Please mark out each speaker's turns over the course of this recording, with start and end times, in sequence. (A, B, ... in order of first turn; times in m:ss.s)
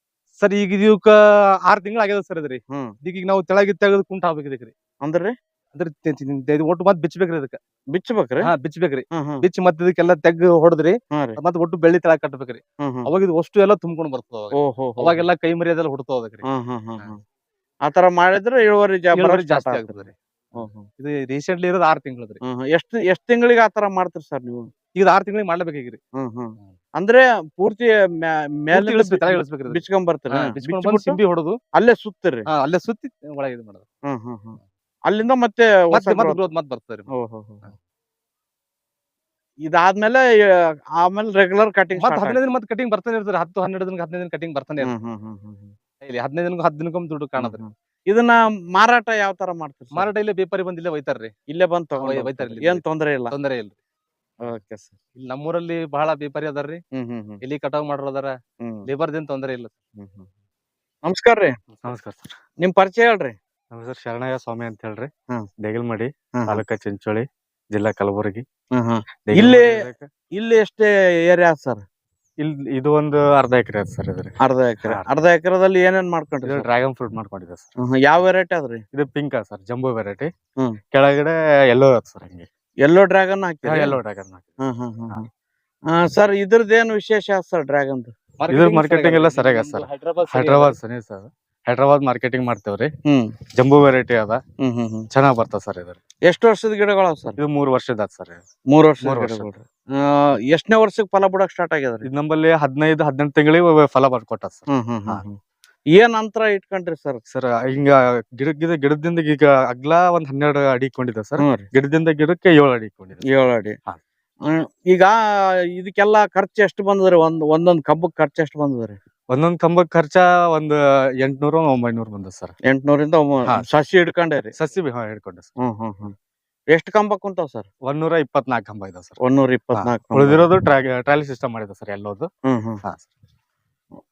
0:00.4-0:04.7 A
0:05.0-0:05.3 B
0:05.8-0:07.6 A
0:07.9-0:08.5 B
0:08.4-0:16.4 A
0:09.1-0:09.4 B
0:11.1-0:11.4 B
0:12.8-0:13.1 B
0:14.5-0:15.3 B
0:16.4-0:17.2 B
0:17.8-0:20.9 B
0:19.1-0:20.2 A
0:21.0-0:22.4 A
0:22.4-0:24.7 B
0:25.0-0:26.0 A
0:26.2-0:31.2 B
0:28.7-0:31.6 A
0:31.8-0:32.4 B
0:32.5-0:33.8 A
0:34.1-0:34.6 B
0:35.1-0:36.4 B
0:35.9-0:37.1 A
0:37.1-0:37.6 B
0:39.6-0:42.4 B
0:42.0-0:44.9 A
0:44.8-0:45.7 B
0:46.0-0:47.6 A
0:47.4-0:50.1 B
0:49.9-0:51.3 A
0:51.5-0:53.3 B
0:52.0-0:53.8 A
0:54.4-0:55.0 B
0:55.2-0:56.8 A
0:56.9-0:57.4 B
0:57.4-0:58.4 A
0:58.6-0:58.9 B
0:58.9-0:59.7 A
1:00.0-1:00.3 B
1:01.0-1:01.5 B
1:01.8-1:02.4 C
1:02.6-1:03.4 B
1:03.7-1:05.1 C
1:05.6-1:08.4 C
1:06.4-1:06.6 B
1:08.8-1:09.8 B
1:09.3-1:10.1 C
1:10.4-1:11.8 B
1:12.4-1:15.0 C
1:14.4-1:16.7 B
1:16.5-1:17.7 C
1:17.8-1:18.8 B
1:18.9-1:20.3 C
1:20.9-1:22.5 C
1:22.8-1:24.0 B
1:23.7-1:24.6 C
1:24.6-1:25.3 B
1:25.9-1:28.1 B
1:28.4-1:30.8 A
1:28.5-1:32.9 C
1:33.1-1:33.3 B
1:33.5-1:34.4 C
1:34.6-1:35.1 B
1:35.1-1:36.0 C
1:36.3-1:37.4 B
1:37.4-1:38.4 C
1:38.7-1:42.1 B
1:39.0-1:39.5 C
1:42.0-1:45.2 C
1:44.7-1:45.4 B
1:46.0-1:47.2 B
1:47.3-1:53.2 C
1:51.4-1:51.7 B
1:53.3-1:53.8 B
1:54.5-1:55.2 B
1:55.7-1:59.0 B
1:59.3-2:02.5 C
2:02.7-2:04.5 B
2:04.6-2:05.5 C
2:05.6-2:06.1 B
2:06.7-2:07.7 B
2:07.8-2:09.2 C
2:09.2-2:10.4 B
2:09.8-2:12.3 C
2:12.5-2:12.8 B